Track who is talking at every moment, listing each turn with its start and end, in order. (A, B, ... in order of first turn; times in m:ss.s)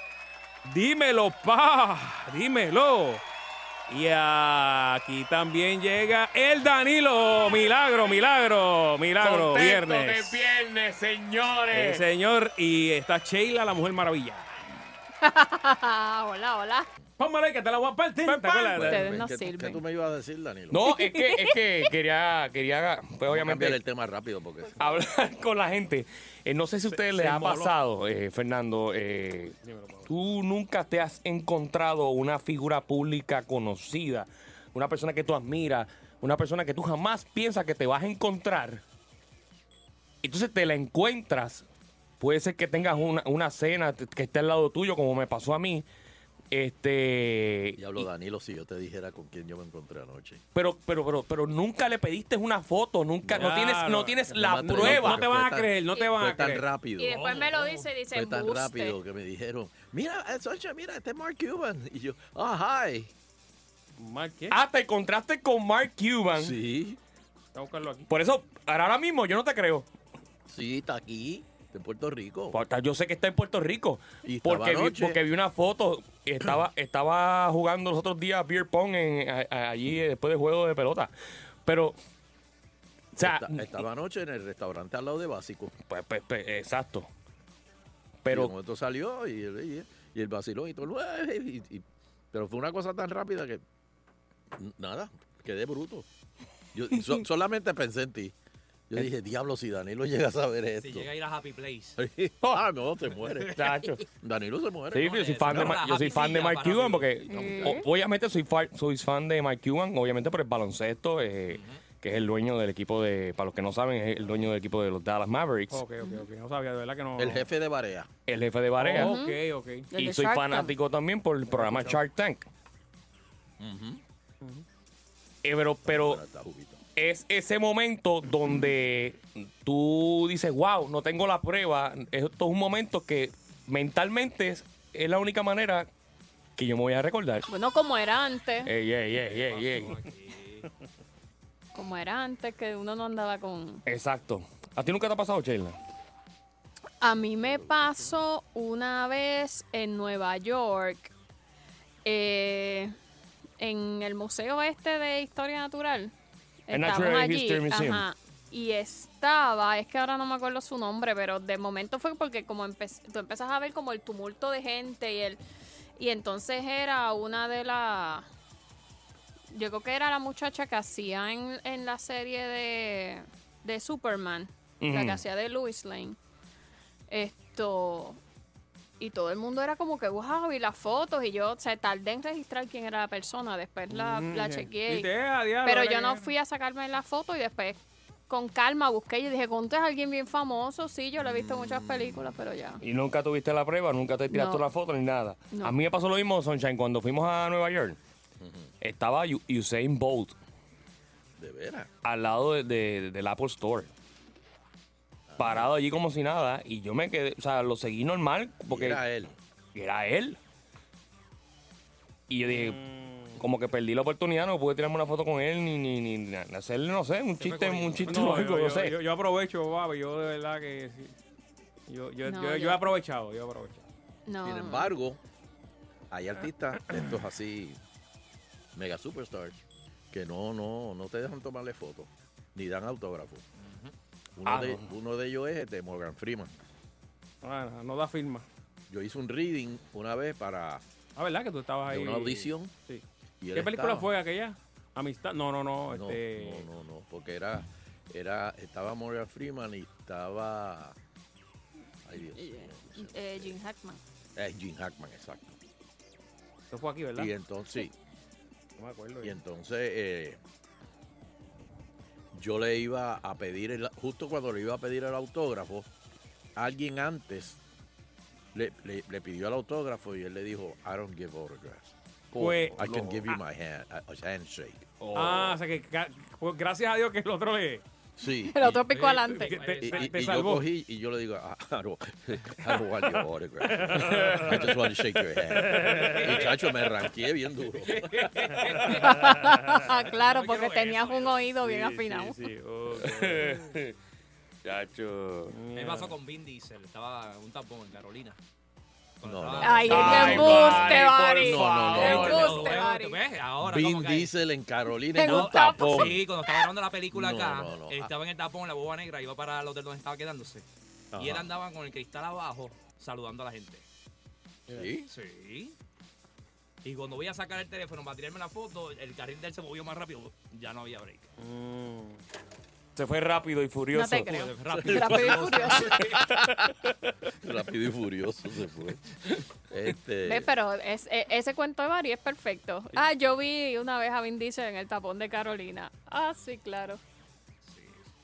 0:00.7-0:03.2 A
0:03.9-0:10.4 A
0:09.2-0:12.0 B
0:11.7-0:14.5 A
0:15.2-0:16.9 C
0:17.2-0:19.2 A
0:18.5-0:19.8 C
0:18.8-0:20.8 D
0:20.7-0:23.8 B
0:20.8-0:21.9 C
0:23.3-0:24.8 D
0:24.8-0:29.6 B
0:26.9-0:27.7 A
0:29.6-0:30.1 A
0:30.1-0:38.8 B
0:40.2-0:41.6 B
0:42.2-0:45.9 B
0:46.5-0:48.1 B
0:47.8-0:50.4 D
0:50.5-0:55.3 B
0:53.3-0:56.6 A
0:54.3-0:57.2 D
0:55.9-0:56.2 C
0:57.0-0:59.0 C
0:57.1-0:57.9 E
0:58.1-1:03.1 D
1:04.0-1:04.6 A
1:04.5-1:06.6 B
1:06.4-1:07.0 D
1:07.6-1:08.1 A
1:08.1-1:09.9 B
1:10.5-1:12.6 D
1:12.5-1:21.1 B
1:14.2-1:15.2 D
1:21.6-1:22.0 B
1:23.2-1:23.8 B
1:23.2-1:25.7 D
1:25.8-1:27.1 B
1:28.2-1:28.5 B
1:28.3-1:33.6 D
1:34.6-1:36.1 D
1:36.7-1:38.3 D
1:38.9-1:41.1 D
1:40.8-1:42.0 E
1:42.0-1:43.6 D
1:43.1-1:43.6 E
1:43.5-1:44.0 B
1:44.1-1:45.0 D
1:44.9-1:55.8 B
1:44.9-1:47.7 E
1:47.3-1:47.9 C
1:51.5-1:51.8 E
1:55.7-1:57.5 A
1:57.2-1:58.1 D
1:58.3-1:59.2 B
1:58.8-1:59.9 A
1:59.0-1:59.4 C
1:59.9-2:00.7 C
2:00.0-2:02.5 B
2:01.5-2:02.0 A
2:03.6-2:04.0 D
2:05.4-2:06.2 B
2:05.8-2:06.8 D
2:07.0-2:15.9 B
2:16.6-2:17.4 B
2:17.5-2:18.7 C
2:18.6-2:20.0 B
2:19.2-2:20.7 E
2:21.8-2:23.8 C
2:23.9-2:25.8 B
2:27.0-2:31.1 C
2:27.4-2:28.1 D
2:32.0-2:33.0 C
2:33.6-2:36.1 C
2:36.7-2:45.4 C
2:36.7-2:38.0 B
2:46.0-2:48.3 C
2:49.5-2:56.2 C
2:54.8-2:55.2 B
2:57.1-2:58.2 C
2:59.0-3:05.1 C
3:03.9-3:06.3 A
3:05.6-3:12.8 C
3:11.2-3:12.3 D
3:12.8-3:18.0 B
3:14.3-3:14.6 C
3:15.5-3:15.8 C
3:18.4-3:18.7 D
3:18.8-3:20.4 B
3:21.4-3:21.9 D
3:22.0-3:23.9 B
3:25.3-3:25.7 D
3:25.4-3:29.0 B
3:28.7-3:29.3 D
3:29.8-3:30.4 B
3:32.3-3:32.8 B
3:32.5-3:33.5 A
3:33.4-3:39.0 B
3:37.4-3:38.3 E
3:38.0-3:41.1 A
3:41.9-3:43.8 A
3:42.2-3:42.8 C
3:44.3-3:45.0 C
3:44.4-3:45.2 D
3:46.1-3:47.8 D
3:48.8-3:49.6 D
3:50.1-3:53.4 D
3:53.6-3:53.9 E
3:54.4-3:56.5 D
3:54.5-3:54.9 B
3:57.4-3:58.4 A
3:58.9-4:00.8 D
4:01.2-4:06.7 A
4:01.9-4:02.7 D
4:03.4-4:04.1 D
4:05.9-4:11.0 D
4:12.1-4:13.6 D
4:12.2-4:14.0 C
4:14.4-4:15.6 D
4:16.7-4:17.3 A
4:17.2-4:17.9 D
4:18.8-4:19.4 A
4:19.2-4:20.4 D
4:22.3-4:25.9 D
4:26.6-4:27.6 D
4:28.5-4:34.9 D
4:32.4-4:32.9 A
4:32.7-4:33.3 B
4:35.0-4:35.6 B
4:35.1-4:37.8 A
4:38.2-4:38.9 D
4:38.4-4:39.7 C
4:38.9-4:40.7 A
4:39.4-4:40.2 E
4:39.8-4:48.3 D
4:43.7-4:44.6 A
4:44.0-4:44.6 B
4:45.6-4:46.4 A
4:46.1-4:46.5 E
4:47.9-4:49.1 E
4:48.8-4:49.8 A
4:49.1-4:52.4 C
4:49.8-4:51.5 E
4:51.6-4:53.7 A
4:53.0-4:54.0 B
4:54.6-4:55.5 B
4:55.5-4:56.1 A
4:55.8-4:58.4 E
4:59.2-5:01.1 E
4:59.3-5:02.5 D
4:59.6-5:03.2 C
4:59.8-5:02.7 B
5:02.0-5:04.3 E
5:03.6-5:06.2 D
5:05.1-5:06.7 C
5:05.2-5:10.6 E
5:07.2-5:08.1 D
5:11.2-5:13.8 E
5:11.2-5:11.4 D
5:14.7-5:15.0 D
5:15.1-5:15.8 E
5:16.8-5:21.3 E
5:21.4-5:22.2 A
5:23.0-5:24.3 B
5:23.9-5:26.1 C
5:24.3-5:26.2 E
5:24.9-5:26.5 D
5:27.4-5:29.1 D
5:29.7-5:30.5 D
5:30.2-5:37.0 C
5:37.6-5:38.1 E